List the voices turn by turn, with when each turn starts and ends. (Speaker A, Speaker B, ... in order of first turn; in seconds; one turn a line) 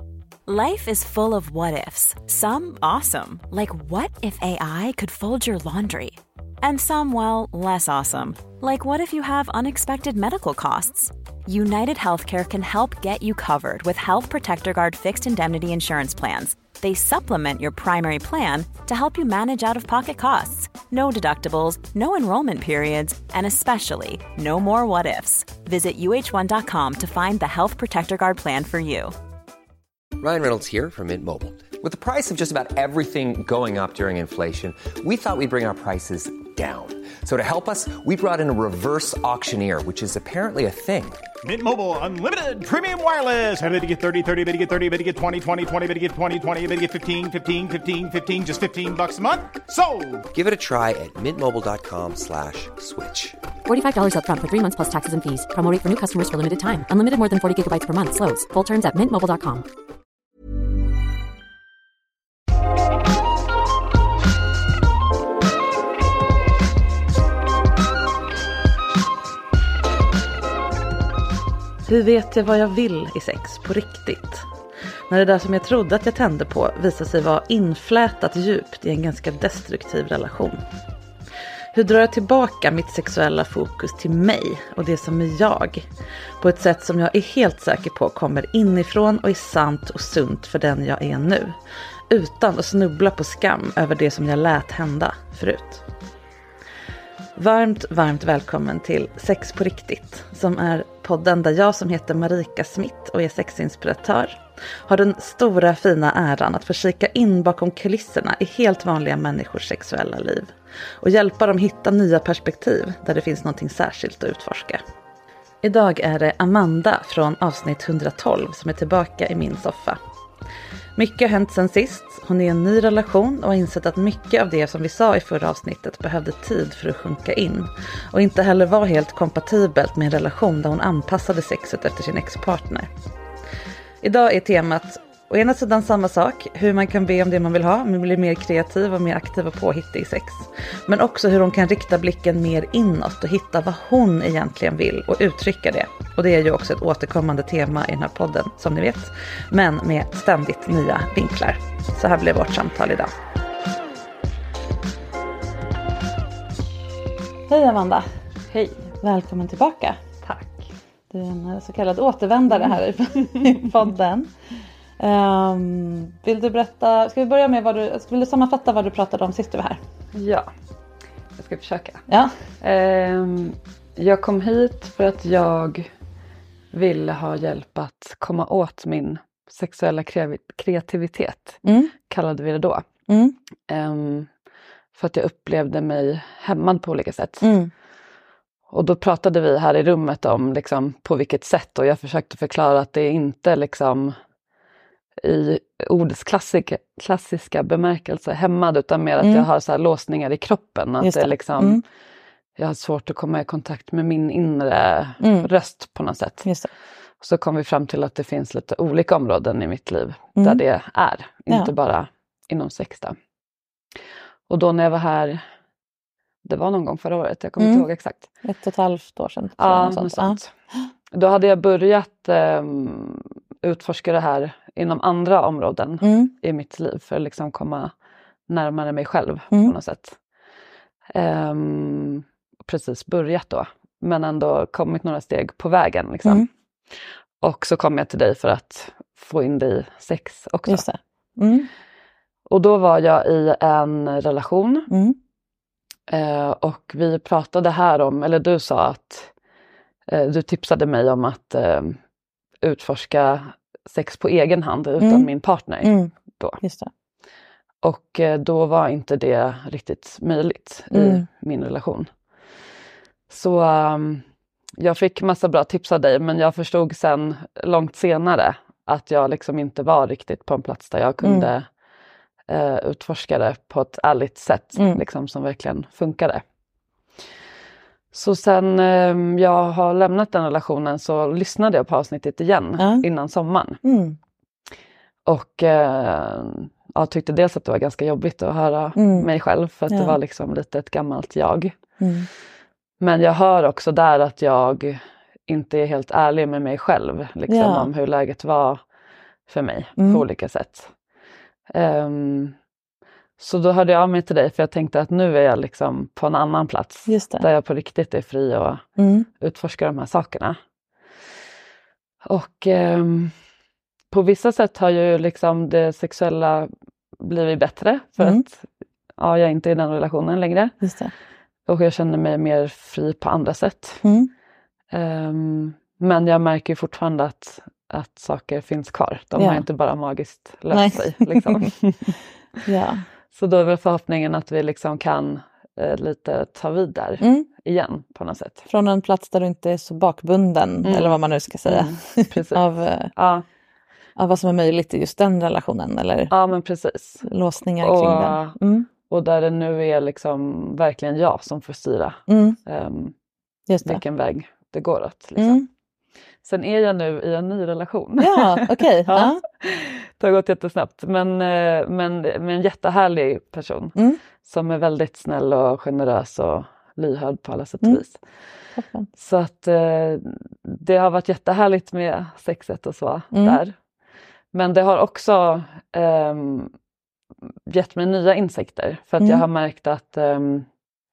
Speaker A: 0.5-29.1
Speaker B: 30.2-41.2
Speaker C: 41.4-50.2
Speaker B: 50.3-53.4
Speaker D: 53.6-59.6
Speaker E: 71.8-74.5
Speaker E: 75.1-80.6
Speaker E: 81.7-85.9
Speaker E: 86.4-91.6
Speaker E: 92.1-95.8
Speaker E: 97.3-114.8
Speaker E: 115.6-120.0
Speaker E: 121.0-132.9
Speaker E: 134.0-153.1
Speaker E: 157.5-158.1
Speaker F: 158.5-158.9
Speaker E: 159.0-160.2
Speaker F: 160.2-160.7
Speaker E: 161.1-164.3
Speaker E: 165.0-169.8
Speaker F: 170.1-170.5
Speaker F: 171.4-172.0
Speaker E: 172.1-172.3
Speaker F: 172.6-175.9
Speaker F: 176.7-182.8
Speaker E: 181.6-181.9
Speaker E: 183.1-183.3
Speaker F: 183.7-184.3
Speaker F: 184.9-187.5
Speaker E: 187.4-187.7
Speaker F: 188.7-194.1
Speaker F: 195.2-201.8
Speaker E: 199.2-199.4
Speaker E: 201.0-201.8
Speaker F: 202.6-206.5
Speaker E: 205.2-205.5
Speaker F: 207.2-213.1
Speaker F: 214.5-215.4
Speaker F: 216.4-218.2
Speaker E: 217.6-217.9
Speaker E: 218.4-220.4
Speaker F: 219.6-220.5
Speaker F: 221.1-227.9
Speaker E: 226.0-226.3
Speaker F: 228.5-230.2
Speaker F: 231.1-236.5
Speaker F: 237.4-240.8
Speaker E: 240.7-241.7
Speaker F: 242.5-244.9
Speaker E: 244.9-245.2
Speaker F: 246.1-249.3
Speaker F: 250.1-252.0
Speaker F: 252.6-256.6
Speaker E: 255.0-255.3
Speaker E: 255.8-256.9
Speaker F: 257.8-262.1
Speaker E: 260.9-261.2
Speaker F: 263.3-264.2
Speaker F: 264.8-271.6
Speaker E: 271.2-271.5
Speaker F: 272.5-276.4
Speaker E: 274.8-275.0
Speaker F: 278.1-283.8
Speaker E: 282.8-283.0
Speaker E: 283.8-284.2
Speaker F: 285.2-291.7
Speaker E: 288.9-289.3
Speaker E: 289.9-290.2
Speaker E: 292.0-292.3
Speaker F: 293.0-298.8
Speaker E: 297.5-297.9
Speaker F: 299.5-300.9
Speaker E: 300.0-300.2
Speaker F: 301.7-302.5
Speaker F: 303.4-308.8
Speaker E: 307.1-307.4
Speaker E: 309.0-309.3
Speaker F: 309.4-310.6
Speaker F: 312.2-313.3
Speaker F: 314.1-318.7
Speaker E: 318.2-318.4
Speaker F: 319.2-320.7
Speaker E: 320.8-321.1
Speaker F: 321.7-324.0
Speaker E: 324.0-324.3
Speaker F: 324.9-332.1
Speaker E: 329.4-329.6
Speaker E: 330.7-331.6
Speaker E: 332.6-333.0
Speaker F: 333.3-338.6
Speaker E: 337.2-337.5
Speaker E: 338.7-343.1
Speaker F: 340.8-342.6
Speaker F: 343.1-343.4
Speaker E: 344.2-346.3
Speaker F: 346.3-347.3
Speaker E: 347.2-348.9
Speaker F: 347.8-348.6
Speaker F: 349.1-353.1
Speaker E: 352.3-352.6
Speaker E: 353.7-354.0
Speaker F: 353.8-355.6
Speaker E: 355.4-355.7
Speaker F: 356.4-368.2
Speaker E: 358.2-359.4
Speaker E: 363.9-364.2
Speaker E: 368.8-369.1
Speaker F: 369.2-373.7
Speaker E: 373.3-373.6
Speaker F: 374.5-376.7
Speaker F: 377.7-380.7
Speaker E: 379.2-379.4